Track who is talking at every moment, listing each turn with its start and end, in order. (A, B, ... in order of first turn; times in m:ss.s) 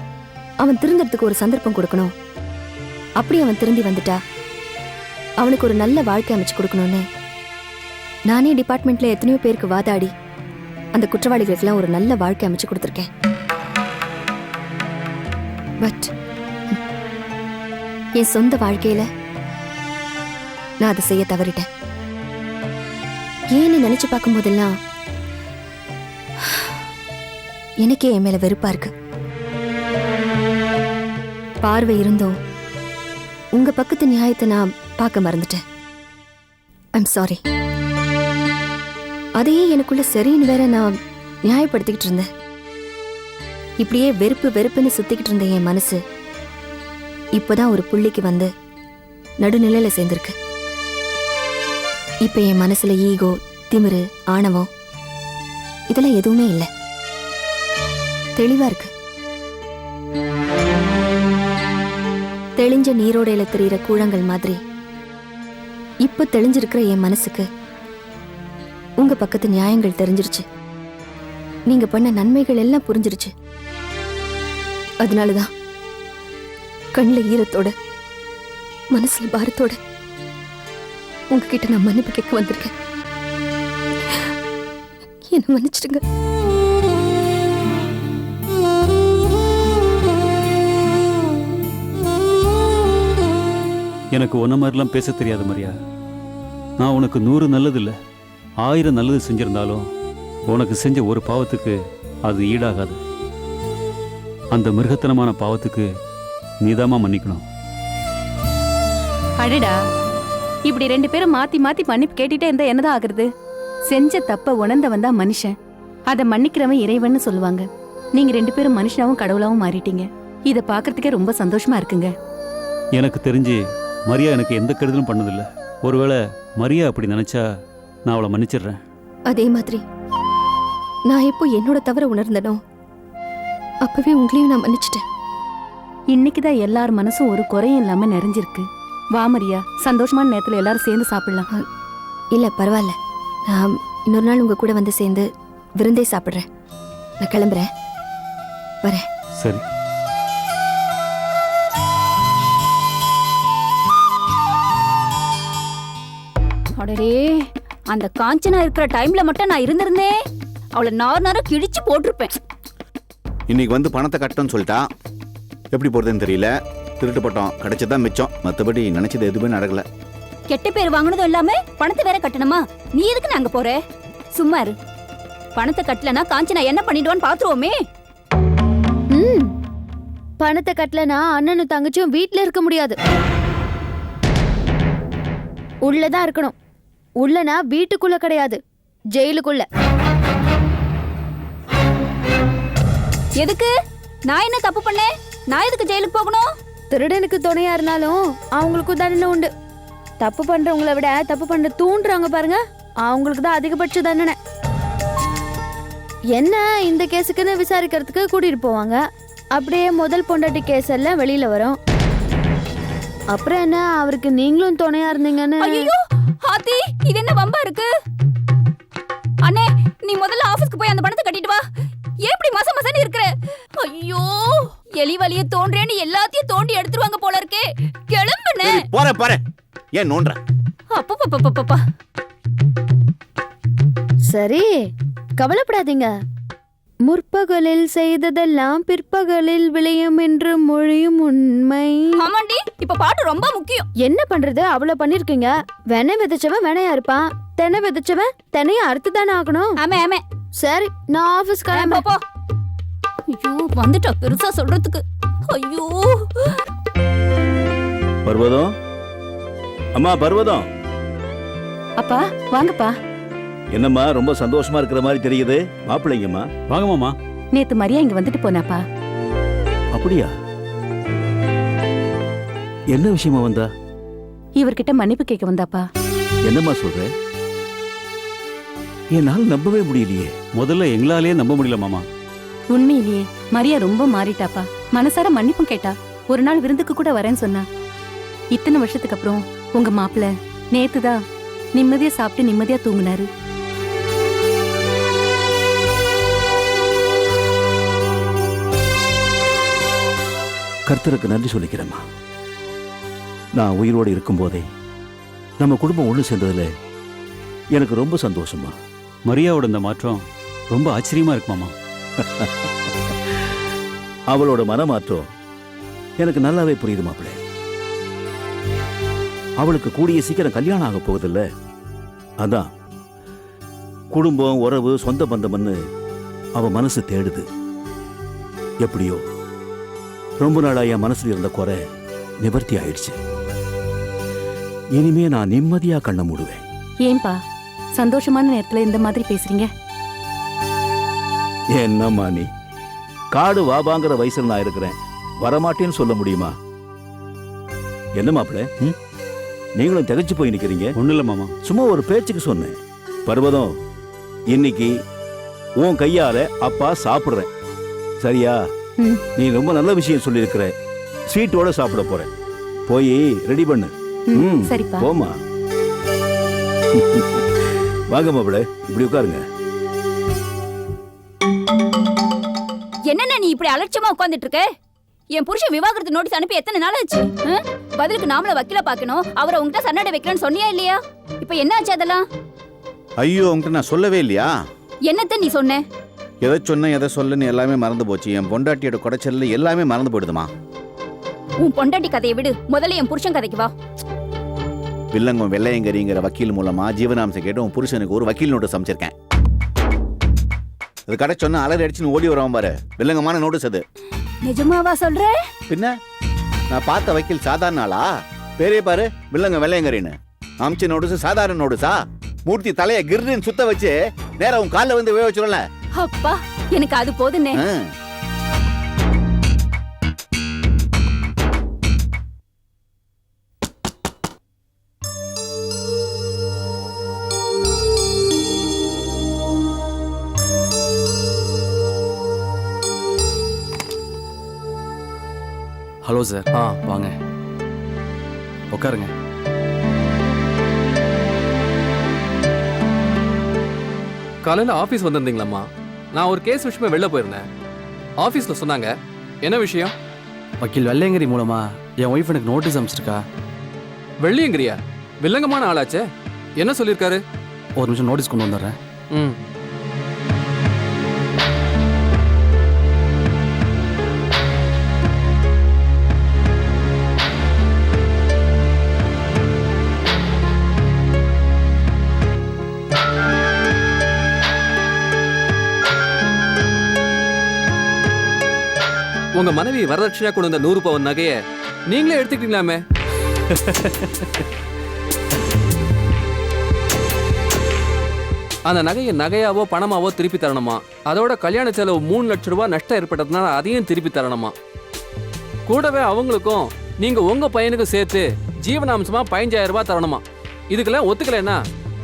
0:00.6-0:02.1 A
0:03.2-0:04.2 A
0:05.4-0:07.0 A
0:08.3-0:10.1 A
0:10.9-0:13.1 A
0:15.8-0:16.1 A
0:18.2-0:19.1 A
0:20.8-0:21.7 A
0:23.5-0:24.7 A
0:27.8-0:28.9 A
0:31.6-0:32.3 A
0:33.6-0:35.6 A
0:37.0-0:37.4 A
0:39.4-0:40.9 A
0:41.4-0:42.2 A
0:43.8-0:46.0 A
0:47.4-0:48.5 A
0:49.4-0:50.3 A
0:52.2-0:54.7 A
0:55.9-0:56.7 A
0:58.4-0:58.9 A
1:02.6-1:04.6 A
1:06.0-1:07.4 A
1:09.0-1:10.4 A
1:11.7-1:13.3 A
1:15.0-1:15.5 A
1:16.9-1:17.7 A
1:18.9-1:19.8 A
1:21.3-1:22.7 A
1:25.3-1:26.0 A
1:34.1-1:35.7 B
1:36.8-1:37.9 B
1:38.6-1:39.8 B
1:40.5-1:43.0 B
1:44.5-1:45.8 B
1:46.6-1:47.4 B
1:49.4-1:49.8 C
1:50.6-1:53.3 C
1:53.9-1:55.5 C
1:56.1-2:02.1 C
2:03.0-2:07.4 B
2:08.0-2:08.8 B
2:09.3-2:09.8 A
2:11.1-2:12.6 A
2:13.8-2:15.0 A
2:16.1-2:21.5 C
2:22.3-2:22.9 A
2:23.5-2:25.3 A
2:25.8-2:26.4 A
2:27.2-2:27.7 A
2:36.8-2:40.2 D
2:40.7-2:42.3 D
2:43.5-2:44.9 E
2:45.7-2:49.8 E
2:50.5-2:53.8 D
2:54.3-2:54.7 D
2:55.6-2:57.8 D
2:59.1-2:59.5 F
3:00.4-3:03.0 F
3:05.8-3:06.5 F
3:07.2-3:08.6 F
3:09.1-3:09.7 F
3:13.4-3:13.7 D
3:14.3-3:16.5 D
3:16.9-3:19.5 F
3:20.2-3:24.4 F
3:26.3-3:29.0 F
3:29.5-3:31.8 F
3:33.3-3:35.9 F
3:35.6-3:37.9 D
3:39.4-3:41.6 D
3:42.2-3:48.9 D
3:48.6-3:49.4 E
3:49.9-3:50.4 E
3:50.9-3:51.8 D
3:54.3-3:56.1 F
3:57.0-4:02.3 F
4:02.2-4:03.8 D
4:04.0-4:09.8 F
4:09.8-4:10.2 D
4:10.6-4:12.0 F
4:11.7-4:12.2 D
4:13.3-4:16.3 D
4:18.2-4:18.7 G
4:19.9-4:20.7 G
4:22.0-4:22.9 C
4:23.7-4:26.5 G
4:26.7-4:27.2 B
4:27.5-4:28.8 C
4:29.9-4:30.3 G
4:32.9-4:33.7 G
4:34.6-4:35.9 C
4:36.4-4:37.1 G
4:39.1-4:40.3 G
4:40.5-4:42.0 B
4:42.7-4:47.6 C
4:48.5-4:51.2 C
4:51.7-4:53.3 C
5:00.9-5:02.0 G
5:03.6-5:04.6 G
5:05.6-5:06.7 G
5:07.7-5:08.7 G
5:09.3-5:11.7 B
5:14.3-5:15.2 G
5:16.2-5:17.4 G
5:19.6-5:21.4 G
5:24.1-5:25.8 G
5:26.6-5:27.4 G
5:28.8-5:29.2 G
5:30.4-5:31.8 G
5:32.4-5:33.1 G
5:35.0-5:36.6 G
5:37.0-5:37.4 C
5:37.9-5:39.7 C
5:41.7-5:42.5 G
5:43.3-5:46.5 G
5:48.2-5:48.7 G
5:49.8-5:50.9 G
5:50.9-5:51.5 B
5:51.6-5:52.7 G
5:53.3-5:53.7 G
5:54.5-5:54.9 G
5:55.8-5:57.5 G
5:58.2-5:58.5 G
5:59.4-6:00.7 G
6:01.3-6:02.3 G
6:02.9-6:05.3 G
6:04.3-6:05.1 C
6:06.9-6:07.4 G
6:08.1-6:09.4 G
6:13.1-6:14.7 D
6:15.3-6:22.2 D
6:23.2-6:24.5 E
6:25.0-6:25.8 D
6:26.4-6:30.5 E
6:31.6-6:33.7 D
6:35.1-6:39.1 E
6:41.1-6:43.8 E
6:44.4-6:45.4 D
6:45.7-6:45.9 E
6:46.7-6:55.6 E
6:55.9-6:57.6 D
6:57.6-6:57.9 E
7:16.0-7:17.1 H
7:16.5-7:16.8 I
7:18.7-7:19.1 H
7:24.4-7:27.4 I
7:28.2-7:29.9 I
7:30.6-7:33.2 H
7:34.2-7:36.0 I
7:36.6-7:37.2 I
7:37.8-7:38.8 H
7:59.4-8:01.4 I
8:01.9-8:02.8 I
8:08.7-8:14.5 I
8:15.7-8:21.6 I